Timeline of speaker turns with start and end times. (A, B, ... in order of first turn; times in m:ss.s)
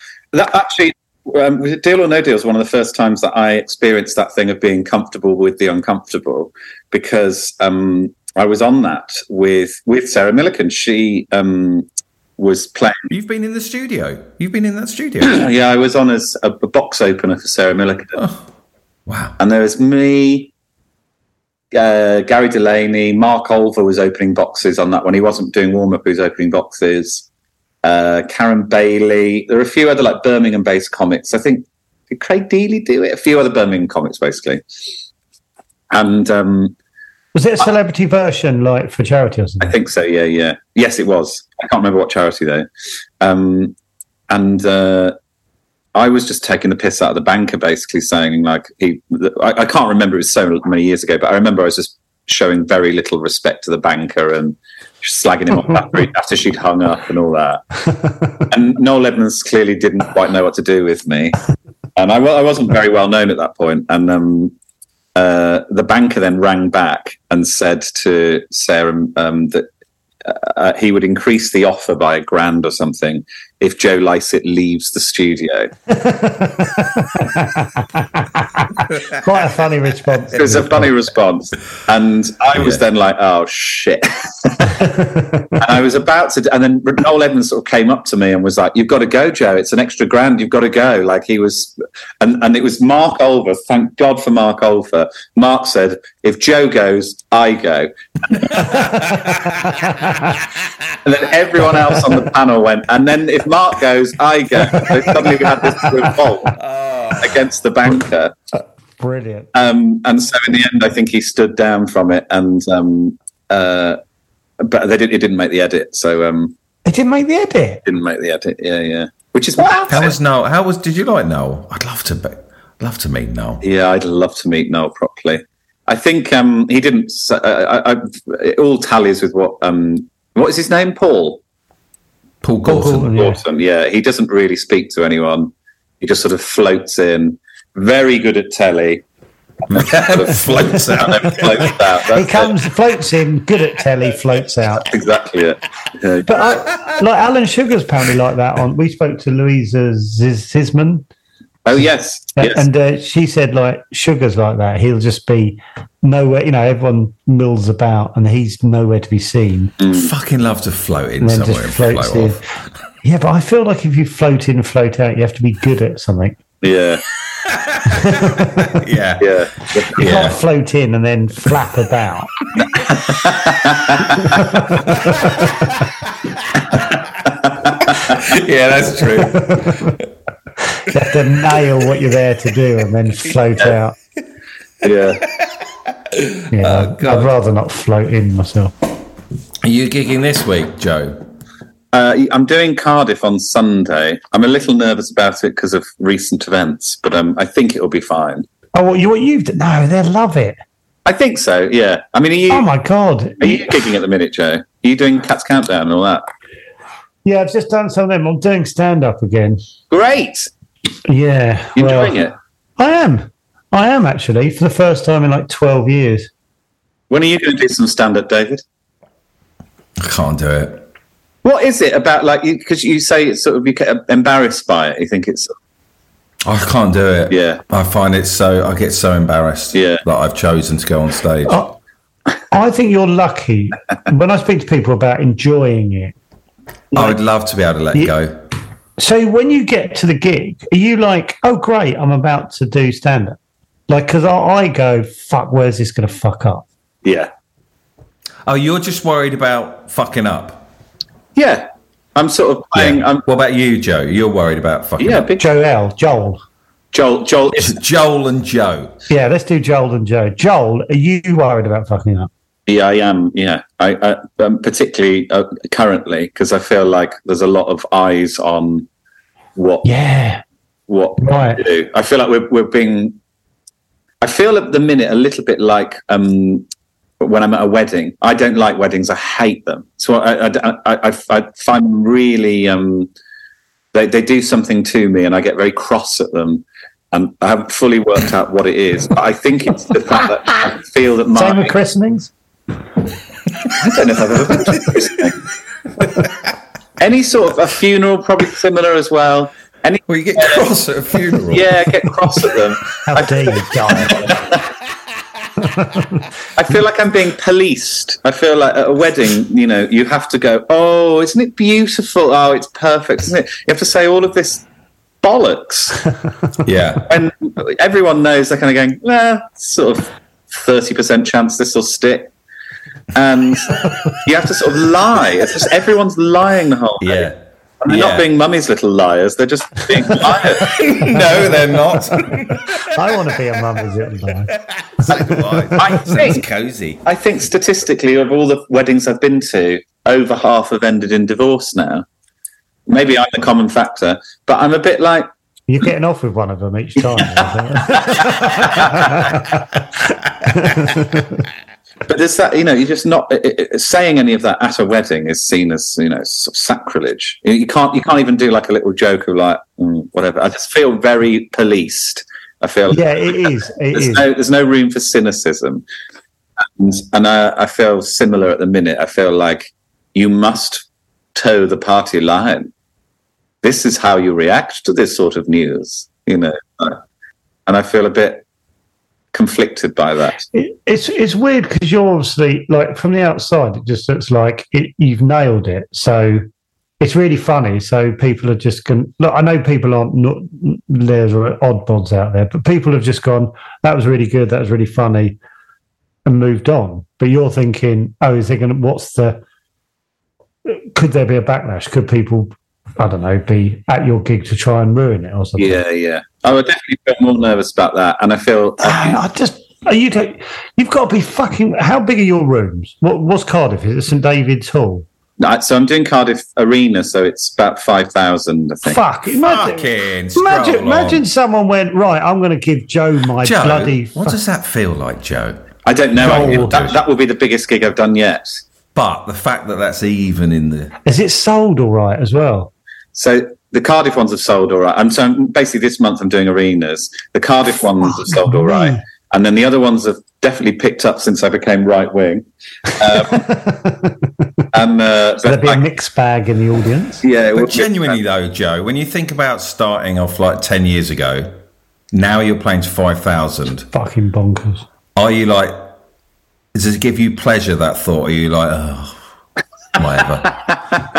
0:00.3-0:11.9 A
0:12.4-0:13.1 A
0:13.1-0:15.4 B
0:15.2-0:18.2 A
0:18.2-0:18.4 B
0:19.1-0:19.4 B
0:19.4-0:20.5 A
0:21.7-0:27.2 A
0:27.8-0:34.6 A
0:35.9-0:36.7 A
0:37.3-0:39.7 C
0:39.6-0:42.7 A
0:43.2-0:43.7 A
0:44.3-0:45.2 A
0:45.9-0:57.8 A
0:58.4-1:01.4 A
1:02.0-1:04.5 A
1:05.1-1:09.7 A
1:10.2-1:15.7 A
1:15.9-1:20.9 C
1:20.3-1:24.8 A
1:22.5-1:22.8 B
1:24.8-1:25.6 C
1:25.6-1:38.9 A
1:38.6-1:40.7 B
1:41.0-1:46.6 A
1:45.6-1:45.9 C
1:46.6-1:47.4 B
1:47.2-1:48.3 A
1:49.0-1:49.5 C
1:49.5-1:54.0 A
1:54.6-1:56.5 A
1:56.8-1:57.8 C
1:57.8-2:00.2 A
1:59.9-2:03.6 B
2:03.6-2:11.4 A
2:12.4-2:13.1 B
2:12.6-2:13.4 C
2:13.1-2:19.0 A
2:19.6-2:22.5 A
2:19.7-2:21.8 B
2:22.1-2:24.8 C
2:24.8-2:26.4 A
2:26.2-2:31.1 C
2:31.6-2:32.6 A
2:32.4-2:39.7 C
2:39.8-2:40.1 A
2:39.9-2:42.4 B
2:41.2-2:42.4 C
2:43.0-2:46.4 C
2:46.6-2:47.0 A
2:47.4-2:50.4 B
2:47.9-2:48.8 C
2:49.2-2:50.3 A
2:50.0-2:52.3 C
2:53.1-2:54.3 A
2:54.1-2:55.7 C
2:54.8-2:56.9 B
2:57.4-2:58.2 A
2:57.6-3:00.0 B
2:59.2-3:00.0 C
3:00.7-3:03.9 C
3:04.8-3:05.2 A
3:06.1-3:07.3 B
3:06.5-3:08.7 C
3:09.6-3:11.2 B
3:11.9-3:18.4 A
3:18.7-3:20.6 C
3:21.0-3:22.7 A
3:22.5-3:23.8 C
3:23.4-3:26.2 A
3:27.2-3:29.6 C
3:29.9-3:30.5 A
3:31.1-3:32.2 C
3:31.8-3:32.3 A
3:32.8-3:36.3 C
3:37.1-3:38.6 A
3:40.0-3:40.8 B
3:41.4-3:45.5 A
3:46.4-3:51.6 B
3:47.3-3:47.6 A
3:49.7-3:50.0 A
3:51.5-3:51.7 C
3:52.5-3:56.1 C
3:56.9-3:57.2 C
3:56.9-3:58.4 B
3:59.0-4:03.4 C
4:03.9-4:06.6 C
4:07.0-4:07.3 A
4:08.4-4:10.7 B
4:11.4-4:13.2 A
4:12.7-4:15.3 B
4:15.0-4:15.4 A
4:15.4-4:16.4 C
4:16.9-4:17.8 A
4:17.6-4:19.0 B
4:19.1-4:22.3 C
4:22.7-4:28.9 A
4:29.6-4:29.8 A
4:29.8-4:30.4 C
4:30.9-4:33.2 A
4:31.2-4:31.6 C
4:34.2-4:36.7 A
4:37.2-4:43.1 A
4:43.9-4:51.7 A
4:51.3-4:52.3 C
4:53.7-4:55.4 A
4:57.0-5:00.6 A
5:00.1-5:01.9 B
5:01.5-5:04.6 A
5:03.0-5:04.3 C
5:05.6-5:06.2 C
5:06.6-5:14.6 A
5:15.2-5:16.0 A
5:16.6-5:17.1 B
5:17.0-5:22.3 A
5:23.1-5:27.3 A
5:27.0-5:28.3 B
5:27.8-5:30.8 A
5:30.6-5:32.9 B
5:30.8-5:31.2 C
5:32.9-5:34.5 C
5:34.5-5:37.0 B
5:35.0-5:35.8 C
5:35.8-5:36.4 A
5:37.0-5:42.0 A
5:42.9-5:45.3 A
5:45.7-5:49.6 C
5:48.1-5:49.2 A
5:50.5-5:51.3 C
5:52.1-6:05.8 A
6:02.9-6:04.2 C
6:06.8-6:12.7 A
6:13.6-6:17.0 A
6:17.7-6:18.4 A
6:19.3-6:20.4 A
6:20.5-6:26.4 C
6:27.0-6:35.4 C
6:36.2-6:39.4 C
6:40.6-6:45.8 C
6:45.6-6:49.2 A
6:48.8-6:55.0 C
6:55.4-6:59.0 A
6:58.8-7:04.4 C
6:59.4-7:01.3 B
7:03.4-7:07.0 B
7:05.8-7:08.6 A
7:06.2-7:06.8 C
7:08.9-7:11.0 B
7:11.0-7:12.7 C
7:13.1-7:23.5 A
7:18.0-7:19.0 C
7:23.2-7:24.3 C
7:24.7-7:25.8 A
7:25.4-7:27.2 C
7:27.2-7:28.2 A
7:27.5-7:31.6 B
7:32.1-7:33.9 B
7:33.9-7:34.8 C
7:35.2-7:35.9 B
7:36.7-7:39.2 B
7:40.0-7:40.5 B